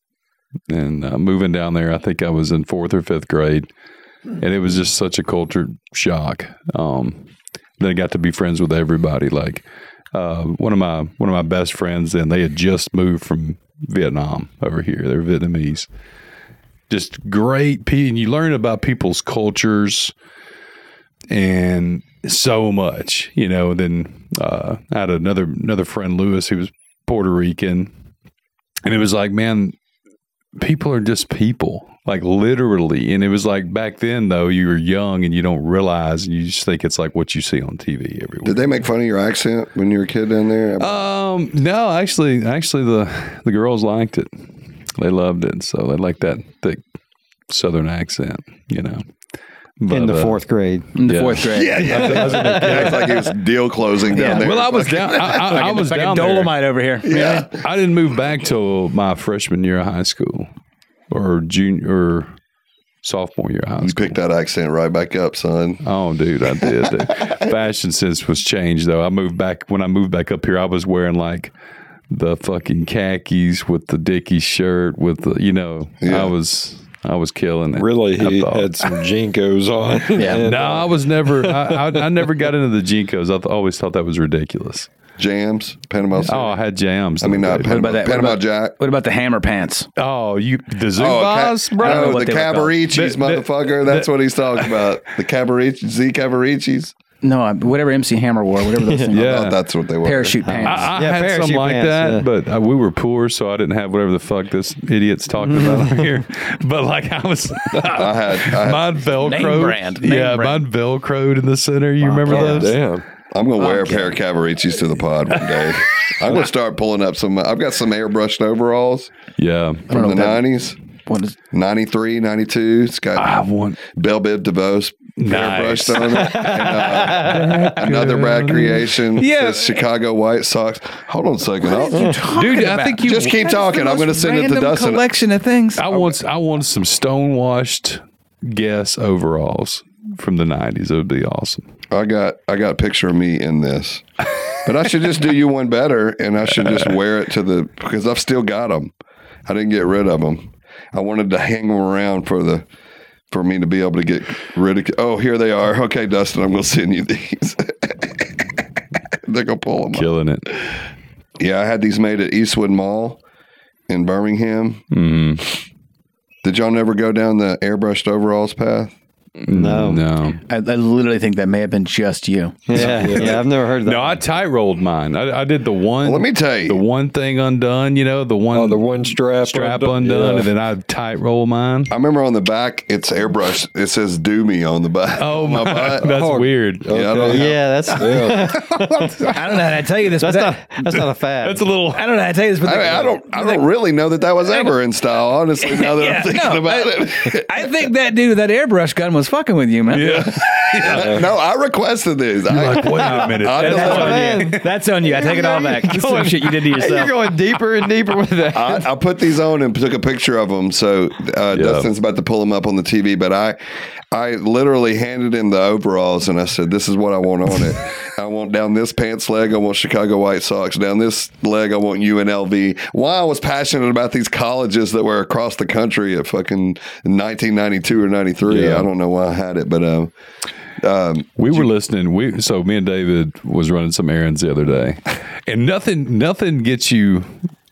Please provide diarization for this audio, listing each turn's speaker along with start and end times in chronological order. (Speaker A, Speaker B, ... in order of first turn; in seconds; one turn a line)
Speaker A: 0.7-3.7
Speaker A: 4.4-7.2
Speaker A: 7.8-15.9
Speaker A: 16.9-20.1
Speaker A: 21.3-27.9
Speaker A: 28.9-29.8
Speaker A: 30.6-38.7
Speaker B: 38.4-41.0
Speaker A: 40.8-44.3
Speaker A: 45.0-46.8
Speaker A: 47.5-49.0
Speaker A: 49.8-50.4
Speaker C: 49.9-50.9
Speaker D: 51.0-52.0
Speaker A: 51.0-53.2
Speaker B: 51.5-55.7
Speaker C: 52.1-53.0
Speaker D: 54.1-54.5
Speaker A: 54.2-56.5
Speaker D: 55.1-57.5
Speaker B: 57.1-57.6
Speaker A: 57.6-60.5
Speaker A: 61.1-62.3
Speaker A: 63.0-64.2
Speaker B: 63.8-65.8
Speaker A: 65.8-71.5
Speaker B: 66.5-67.4
Speaker A: 72.1-79.0
Speaker B: 76.0-76.3
Speaker E: 77.8-82.4
Speaker D: 80.2-80.4
Speaker A: 80.3-84.9
Speaker B: 85.2-86.6
Speaker A: 86.2-87.9
Speaker B: 87.2-88.8
Speaker D: 87.7-89.9
Speaker A: 90.0-92.3
Speaker B: 91.0-96.9
Speaker D: 91.8-92.8
Speaker A: 92.9-94.9
Speaker D: 97.2-100.9
Speaker A: 99.1-99.6
Speaker B: 99.1-100.4
Speaker C: 100.5-102.3
Speaker A: 100.6-112.8
Speaker C: 105.5-106.0
Speaker B: 107.9-109.1
Speaker D: 109.2-110.6
Speaker D: 112.0-112.6
Speaker E: 112.3-113.0
Speaker B: 113.3-119.1
Speaker D: 113.6-114.1
Speaker A: 119.4-119.9
Speaker D: 119.9-120.5
Speaker B: 119.9-120.8
Speaker D: 121.1-121.4
Speaker B: 121.5-132.2
Speaker A: 123.2-123.8
Speaker A: 125.2-129.0
Speaker C: 126.4-127.6
Speaker D: 129.2-129.8
Speaker D: 131.6-135.9
Speaker A: 132.3-133.3
Speaker B: 133.0-135.0
Speaker A: 135.8-141.7
Speaker B: 141.9-144.1
Speaker B: 144.6-148.9
Speaker B: 149.5-152.7
Speaker B: 153.3-158.5
Speaker B: 159.3-160.1
Speaker A: 159.9-160.5
Speaker B: 161.4-163.2
Speaker B: 163.9-164.9
Speaker A: 164.9-165.4
Speaker B: 166.4-168.9
Speaker A: 169.4-170.4
Speaker C: 169.5-170.0
Speaker D: 170.5-172.8
Speaker C: 172.7-174.2
Speaker E: 172.7-173.4
Speaker A: 172.8-173.3
Speaker A: 173.8-181.9
Speaker B: 176.0-176.8
Speaker E: 178.5-180.5
Speaker B: 181.9-186.1
Speaker A: 185.2-186.9
Speaker E: 186.0-188.6
Speaker B: 186.9-187.5
Speaker C: 187.3-189.4
Speaker D: 189.3-190.6
Speaker C: 190.2-191.6
Speaker A: 191.4-192.0
Speaker D: 191.9-193.6
Speaker B: 192.6-197.5
Speaker D: 194.4-194.7
Speaker D: 195.6-200.2
Speaker A: 199.9-201.2
Speaker B: 200.0-204.4
Speaker E: 200.9-201.2
Speaker A: 202.5-204.7
Speaker D: 203.5-207.2
Speaker C: 203.8-208.9
Speaker B: 208.5-213.6
Speaker A: 211.5-211.9
Speaker B: 214.1-230.1
Speaker A: 228.4-228.9
Speaker B: 230.8-231.7
Speaker A: 231.4-237.3